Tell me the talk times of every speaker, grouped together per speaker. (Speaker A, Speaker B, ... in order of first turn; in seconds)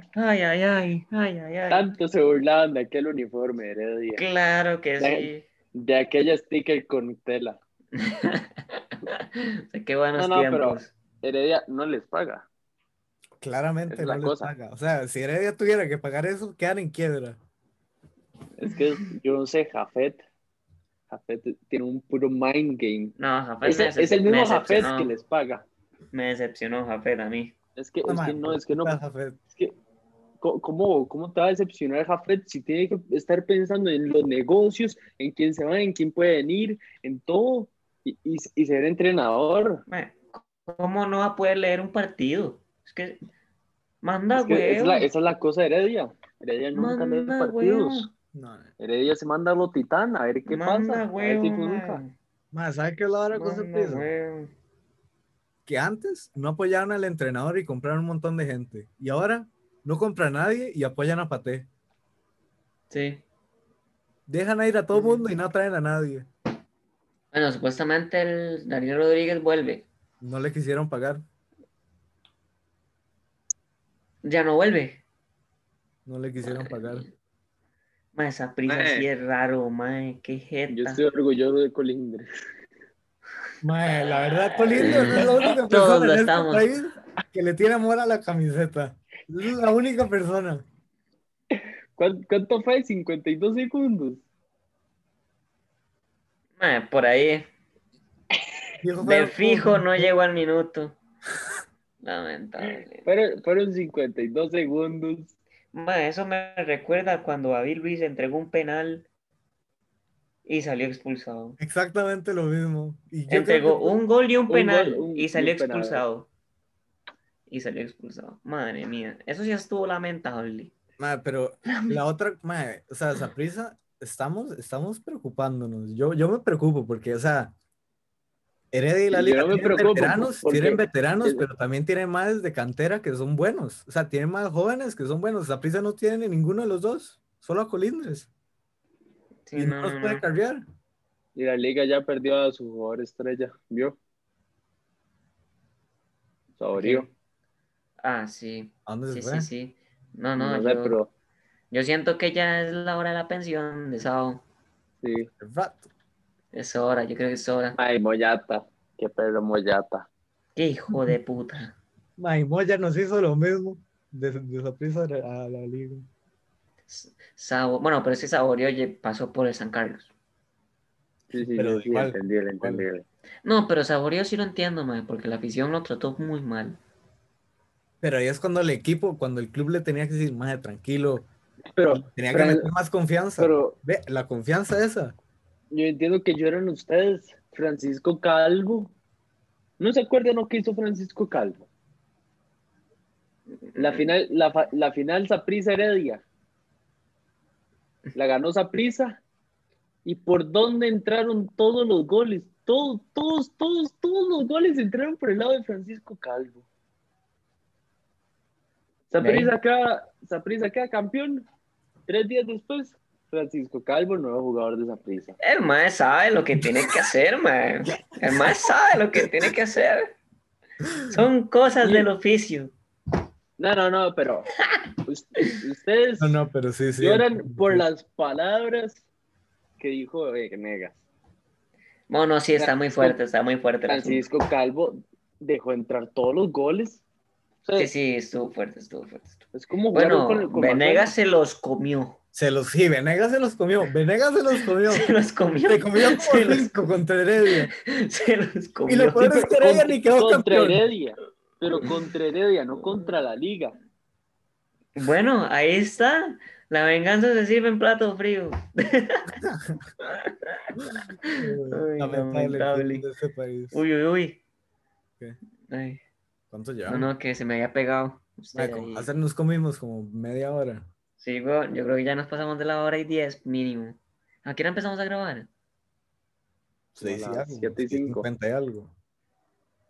Speaker A: 0.1-1.9, 4.2-5.5, 8.0-10.9, 23.2-25.1, 26.1-27.5, 39.9-43.2, 44.0-45.1, 46.7-48.1, 50.5-52.1, 53.3-54.5, 62.9-63.2, 64.9-65.3, 67.3-69.9, 74.2-75.0, 76.4-77.1, 78.1-81.0, 84.3-86.7, 96.6-97.5, 99.0-101.0, 102.0-103.1, 105.7-109.0, 110.5-111.6, 113.3-116.3, 117.5-120.7, 139.5-140.2, 146.8-147.1, 148.0-150.9, 151.7-154.4, 156.5-157.8, 160.6-161.8, 166.9-170.1, 173.4-176.8, 193.7-194.1, 209.2-209.5, 215.4-220.2, 221.1-222.7, 232.1-234.3, 237.8-242.2, 244.9-246.8, 247.5-249.3, 254.9-259.4, 260.0-260.7, 261.2-263.1, 263.7-264.4, 265.7-266.0, 266.9-269.1, 271.2-275.5
Speaker B: 1.7-4.2, 5.0-7.6, 10.2-12.4, 13.9-14.5, 18.6-20.2, 21.1-25.6, 27.8-28.9, 30.4-39.8, 44.3-48.1, 48.8-52.0, 78.7-79.1, 80.7-82.3, 85.0-85.5, 91.5-94.2, 102.6-105.3, 114.5-116.0, 129.1-131.4, 141.4-143.9, 146.6-147.1, 150.4-151.1, 155.0-155.3, 157.8-160.1, 171.3-173.1, 181.7-182.7, 183.4-183.8, 185.7-188.9, 189.8-191.6, 193.8-196.2, 198.1-199.2, 200.1-206.6, 209.1-211.4, 212.1-215.4, 221.8-222.1, 223.6-224.5, 225.1-226.4, 227.0-229.0, 229.8-231.0, 232.6-233.2, 233.9-237.0, 237.6-237.9, 239.5-241.1, 249.2-253.8, 277.0-278.2
Speaker C: 13.4-17.4, 28.1-29.4, 48.3-48.7, 52.5-54.1, 55.6-61.7, 64.3-66.3, 70.2-71.2, 76.0-77.0, 83.6-90.6, 98.8-100.1, 111.6-114.0, 121.0-127.5, 128.7-138.3, 139.5-140.6, 148.9-149.5, 155.4-155.9, 162.2-166.1, 171.4-172.8, 178.0-181.3, 181.9-185.2, 218.2-219.5, 226.2-227.8, 242.3-245.1, 245.7-247.7, 248.9-250.9, 259.4-259.8, 260.8-263.8, 266.5-267.1, 268.5-270.9, 276.9-278.9